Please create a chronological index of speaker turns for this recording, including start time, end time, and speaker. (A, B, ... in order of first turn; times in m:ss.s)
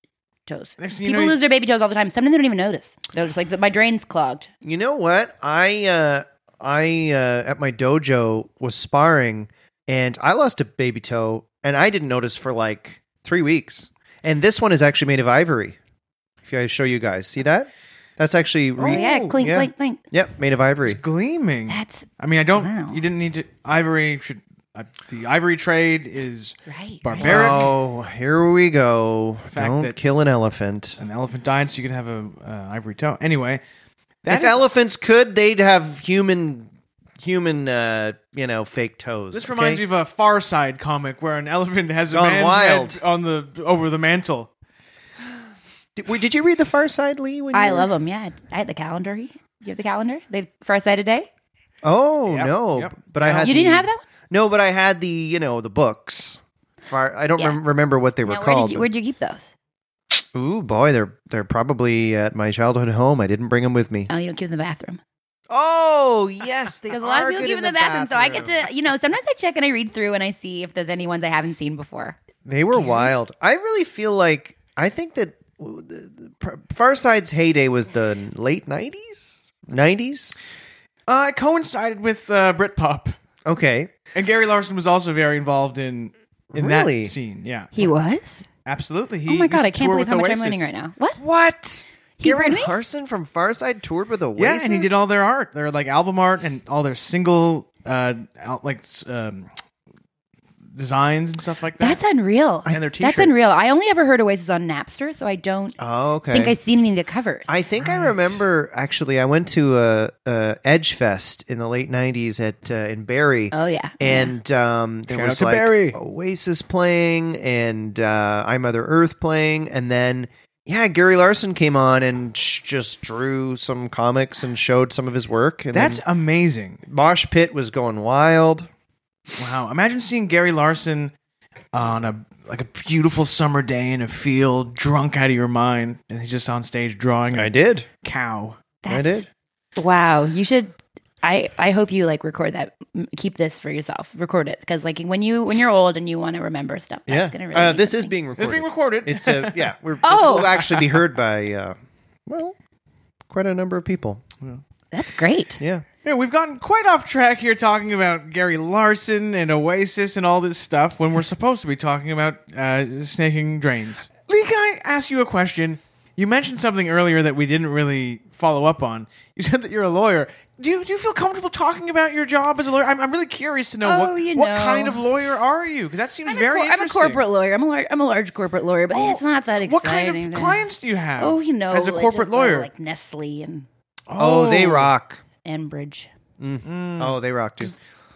0:00.4-0:04.5 A
0:00.8-0:01.4 B
0:04.6-0:15.8 C
0:16.4-0:21.0 C
0:18.8-0:19.3 B
0:18.8-0:20.0 A
0:20.8-0:27.7 B
0:21.7-0:23.0 A
0:26.6-0:27.7 A
0:27.2-0:31.0 C
0:29.5-0:30.0 B
0:31.0-0:33.6 B
0:34.2-0:34.7 B
0:34.3-0:39.8 C
0:39.3-0:44.5 B
0:42.1-0:43.0 C
0:46.0-0:47.9 C
0:47.5-0:51.3 A
0:51.8-0:58.9 C
0:52.3-0:53.6 B
0:53.4-0:54.0 A
0:58.2-0:59.5 A
1:00.1-1:04.1 C
1:04.1-1:05.0 A
1:05.5-1:08.7 C
1:06.9-1:12.2 A
1:12.5-1:20.4 C
1:12.7-1:13.1 A
1:21.1-1:23.1 B
1:23.4-1:23.9 C
1:24.1-1:27.9 B
1:26.5-1:27.1 C
1:27.7-1:28.5 A
1:28.6-1:30.7 B
1:29.3-1:31.2 A
1:31.2-1:34.9 C
1:32.2-1:32.7 A
1:34.4-1:39.5 B
1:40.7-1:42.0 B
1:41.8-1:45.8 A
1:42.7-1:43.5 B
1:45.8-1:46.6 C
1:46.3-1:47.6 A
1:47.5-2:06.0 C
1:47.8-1:48.4 B
1:53.5-1:54.3 A
1:55.1-1:56.0 B
2:05.7-2:06.8 B
2:06.9-2:08.7 C
2:09.4-2:11.1 B
2:11.7-2:18.6 B
2:17.3-2:17.9 C
2:18.8-2:19.2 A
2:18.9-2:19.2 C
2:19.8-2:28.1 A
2:27.1-2:31.7 C
2:28.4-2:31.0 B
2:30.0-2:30.6 A
2:32.3-2:32.6 C
2:33.3-2:34.2 C
2:34.9-2:35.6 A
2:35.6-2:35.8 C
2:36.0-2:57.2 B
2:53.8-2:55.0 A
2:56.3-3:00.6 A
2:58.9-3:02.7 B
3:01.2-3:03.7 A
3:04.1-3:04.9 B
3:04.2-3:05.2 C
3:05.4-3:06.1 A
3:06.4-3:07.7 C
3:06.6-3:07.8 B